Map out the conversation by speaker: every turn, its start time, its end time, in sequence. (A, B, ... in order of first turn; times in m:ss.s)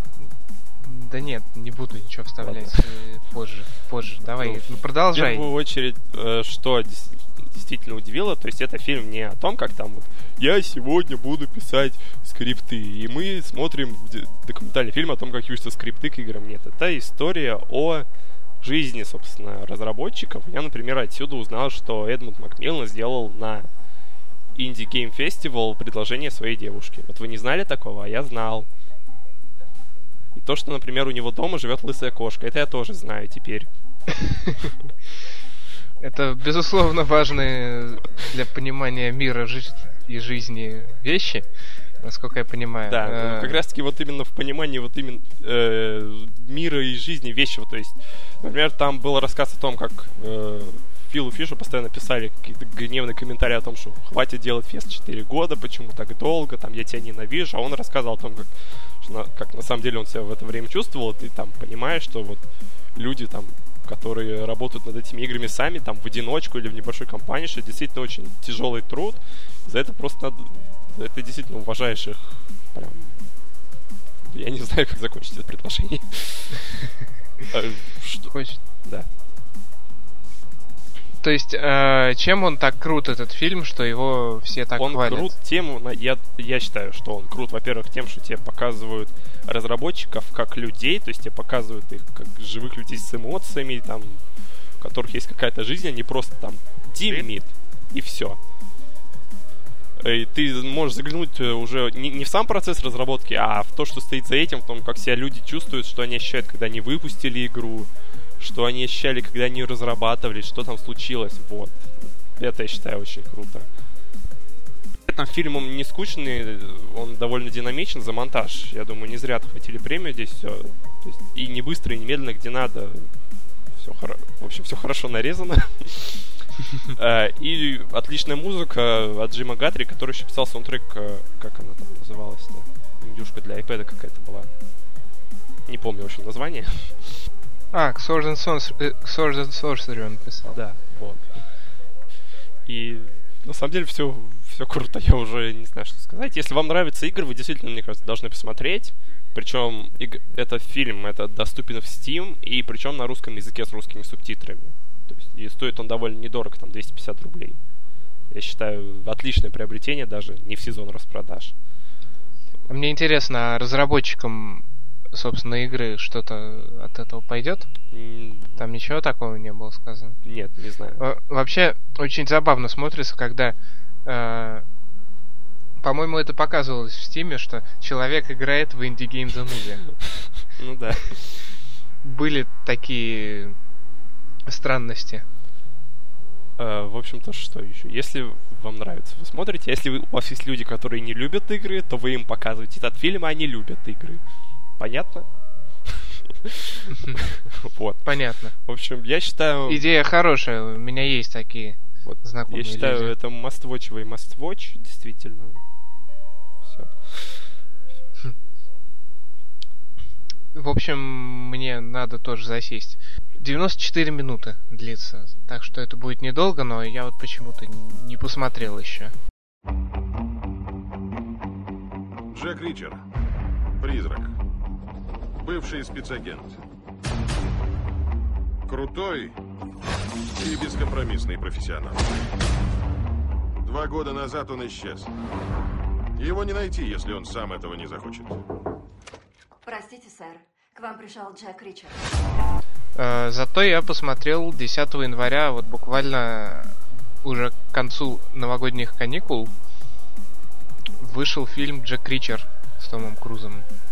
0:00.2-0:05.5 A
0:02.4-0:02.8 B
0:04.4-0:18.0 B
0:18.6-0:23.7 B
0:24.5-0:28.7 B
0:30.3-0:33.7 B
0:34.2-0:34.7 A
0:36.0-0:41.4 A
0:42.0-0:43.6 A
0:42.8-1:02.4 B
1:02.9-1:13.1 B
1:14.2-1:16.8 B
1:17.5-1:19.1 B
1:18.3-1:18.6 A
1:21.2-1:25.3 A
1:24.8-1:34.2 B
1:34.8-1:38.4 B
1:40.0-1:53.7 B
1:55.1-2:03.1 B
2:03.8-2:06.4 B
2:06.9-2:14.5 B
2:15.6-2:17.2 B
2:17.7-2:20.6 A
2:20.5-2:21.4 B
2:22.6-2:37.6 B
2:38.3-2:41.5 B
2:42.7-2:47.7 A
2:47.9-2:48.6 B
2:48.6-2:50.2 A
2:50.2-2:51.0 B
2:51.0-2:54.6 A
2:55.8-2:59.8 A
3:00.4-3:01.4 B
3:02.0-3:03.5 A
3:04.5-3:05.2 A
3:06.6-3:14.2 B
3:14.8-3:15.2 B
3:15.8-3:18.1 B
3:16.9-3:17.2 A
3:18.0-3:18.5 A
3:18.6-3:19.8 B
3:19.7-3:23.1 A
3:22.0-3:25.6 B
3:26.6-3:27.5 B
3:30.5-3:39.1 A
3:42.3-3:43.0 C
3:43.8-3:44.3 C
3:45.4-3:46.6 C
3:48.7-3:49.3 C
3:50.4-3:52.1 C
3:53.6-3:55.1 C
3:56.2-3:58.4 C
3:59.6-4:02.0 D
4:03.0-4:09.5 A
4:11.0-4:13.7 A